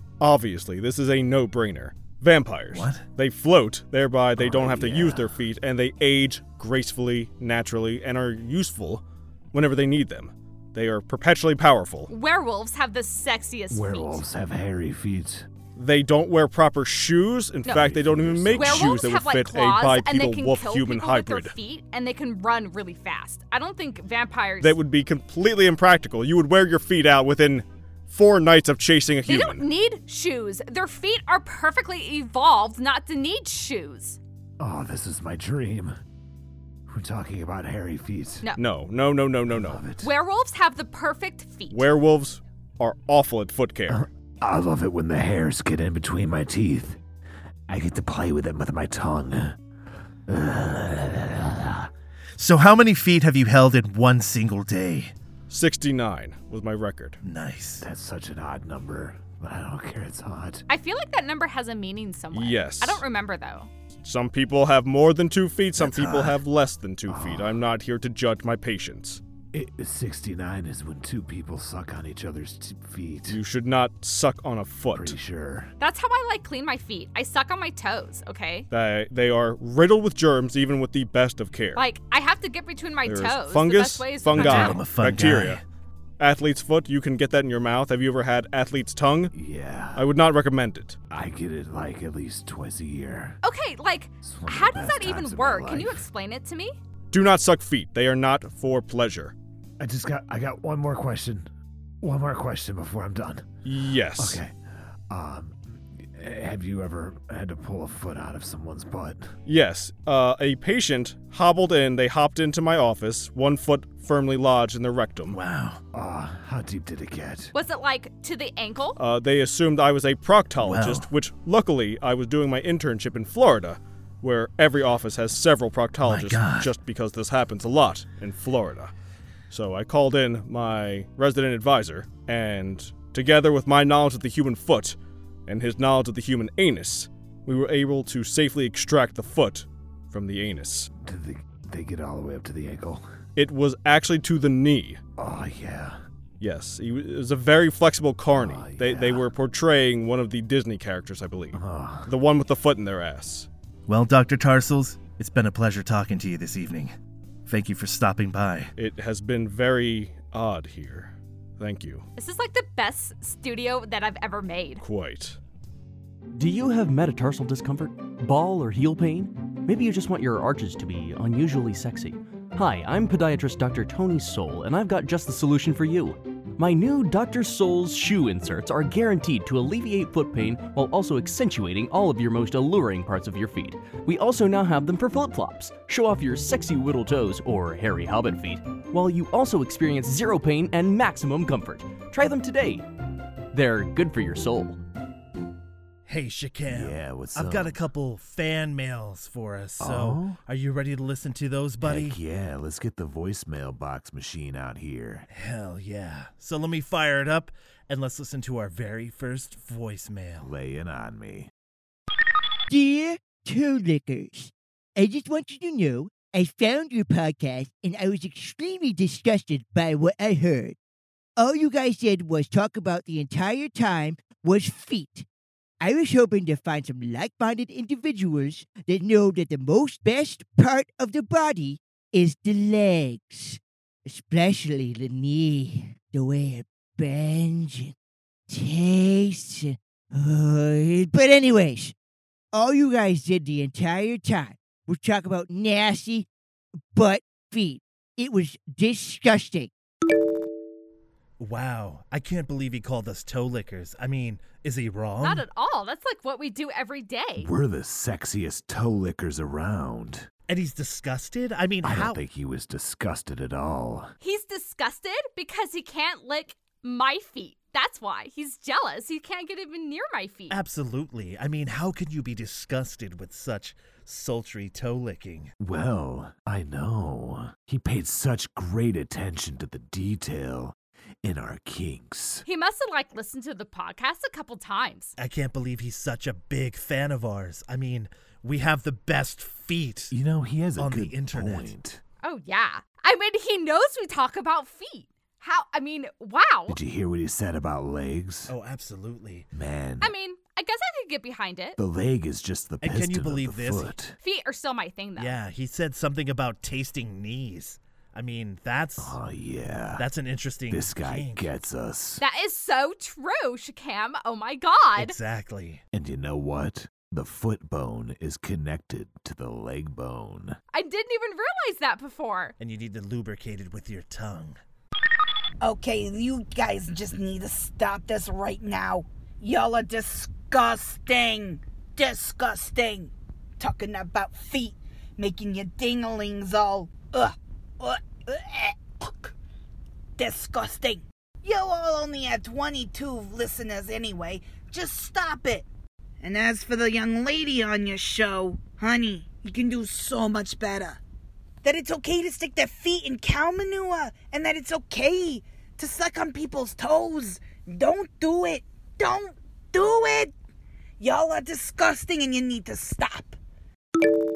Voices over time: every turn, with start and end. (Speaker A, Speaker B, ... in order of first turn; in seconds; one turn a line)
Speaker A: 0.2-12.1
Speaker B: 2.7-3.0
Speaker C: 4.4-5.4
Speaker D: 12.1-14.2
Speaker C: 13.7-15.5
Speaker A: 15.8-21.5
Speaker D: 17.6-17.9
Speaker C: 17.7-19.0
Speaker D: 18.6-24.8
Speaker A: 24.6-29.6
Speaker D: 29.2-34.2
Speaker C: 34.6-36.0
Speaker C: 36.9-38.5
Speaker A: 38.6-39.8
Speaker C: 39.5-40.1
Speaker D: 40.0-41.9
Speaker A: 41.7-44.0
Speaker C: 43.9-47.0
Speaker C: 47.7-49.6
Speaker C: 50.3-51.9
Speaker B: 52.4-55.1
Speaker A: 55.5-57.2
Speaker B: 57.2-57.9
Speaker C: 57.8-60.6
Speaker D: 60.7-63.7
Speaker A: 62.3-63.0
Speaker A: 64.0-69.2
Speaker B: 65.8-66.4
Speaker C: 67.1-67.6
Speaker C: 69.5-73.4
Speaker A: 73.3-75.1
Speaker C: 74.9-75.7
Speaker D: 75.8-78.7
Speaker A: 78.7-81.8
Speaker D: 81.8-84.8
Speaker A: 83.1-85.6
Speaker B: 84.3-85.6
Speaker A: 86.2-89.3
Speaker C: 89.3-90.1
Speaker A: 90.0-91.0
Speaker C: 91.1-93.4
Speaker D: 93.4-96.8
Speaker C: 94.2-96.0
Speaker A: 97.1-99.3
Speaker C: 99.8-101.5
Speaker C: 102.0-103.6
Speaker A: 103.7-104.4
Speaker C: 104.1-104.6
Speaker C: 105.1-109.3
Speaker A: 109.5-115.3
Speaker B: 115.3-115.8
Speaker C: 115.9-117.5
Speaker D: 117.5-119.0
Speaker A: 119.0-128.9
Speaker B: 120.6-121.1
Speaker B: 126.0-126.7
Speaker A: 129.5-134.9
Speaker A: 135.5-140.9
Speaker C: 140.9-143.0
Speaker A: 143.4-145.0
Speaker C: 145.2-146.0
Speaker A: 146.4-153.5
Speaker C: 148.3-149.3
Speaker C: 151.5-152.1
Speaker B: 153.9-156.9
Speaker B: 157.5-158.7
Speaker A: 158.8-162.0
Speaker D: 162.2-164.8
Speaker A: 164.8-165.4
Speaker E: 166.3-192.9
Speaker E: 193.5-194.8
Speaker B: 196.1-202.2
Speaker C: 196.7-197.8
Speaker C: 199.8-200.4
Speaker C: 201.8-205.3
Speaker B: 205.3-210.5
Speaker C: 210.4-211.5
Speaker F: 212.7-220.8
Speaker F: 221.4-225.2
Speaker F: 225.8-237.9
Speaker F: 238.5-241.9
Speaker F: 242.5-246.3
Speaker F: 246.9-249.7
Speaker B: 251.4-255.4
Speaker D: 255.2-257.5
Speaker C: 257.4-260.3
Speaker B: 260.5-262.2
Speaker C: 261.8-264.1
Speaker D: 264.2-270.6
Speaker B: 270.5-275.5
Speaker C: 275.6-282.4
Speaker D: 282.4-285.1
Speaker B: 285.2-290.1
Speaker C: 290.1-292.0
Speaker B: 290.8-291.7
Speaker D: 292.2-296.8
Speaker C: 296.7-298.5
Speaker B: 298.5-299.5
Speaker C: 299.5-300.1
Speaker D: 300.0-301.8
Speaker C: 301.8-304.2
Speaker B: 302.8-303.9
Speaker D: 304.2-305.4
Speaker B: 305.1-309.2
Speaker C: 309.0-310.1
Speaker B: 310.0-311.5
Speaker C: 310.7-312.2
Speaker D: 312.2-315.2
Speaker B: 314.9-315.8
Speaker C: 315.9-320.6
Speaker D: 320.7-322.5
Speaker B: 322.6-324.6
Speaker G: 325.6-339.3
Speaker G: 340.2-345.7
Speaker G: 346.2-351.0
Speaker G: 351.6-360.3
Speaker G: 361.0-363.4